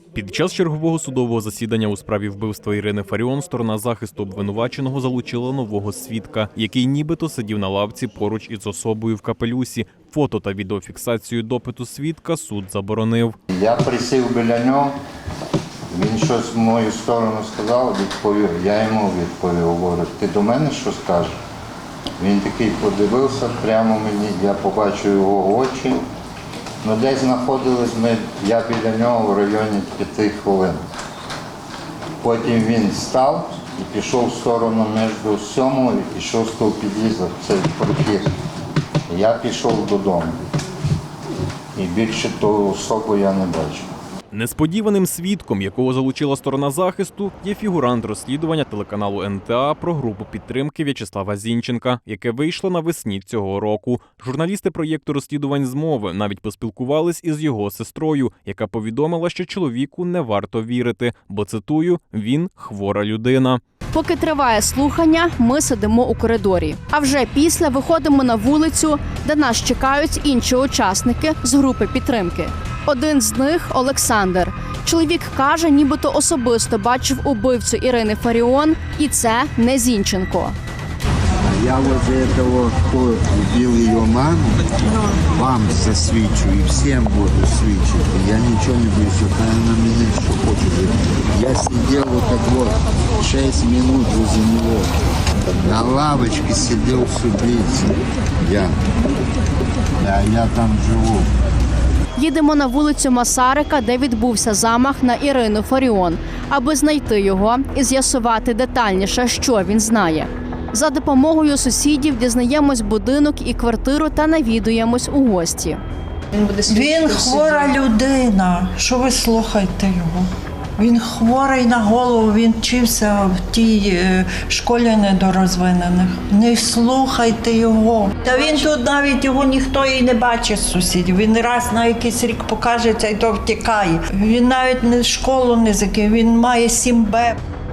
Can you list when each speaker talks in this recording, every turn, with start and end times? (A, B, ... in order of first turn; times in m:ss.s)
0:00.1-0:13.4 A
0:13.5-0:14.9 B
0:15.9-0:21.3 B
0:22.2-0:26.0 B
0:26.8-0:30.8 B
0:32.2-0:38.3 B
0:39.1-0:40.4 B
0:41.8-0:43.9 B
0:44.3-1:03.6 A
1:03.9-1:20.6 C
1:21.5-1:24.6 D
1:25.4-1:34.8 D
1:35.7-1:37.9 D
1:38.4-1:38.7 D
1:40.0-1:41.2 D
1:42.2-1:55.8 C
1:56.6-2:17.4 E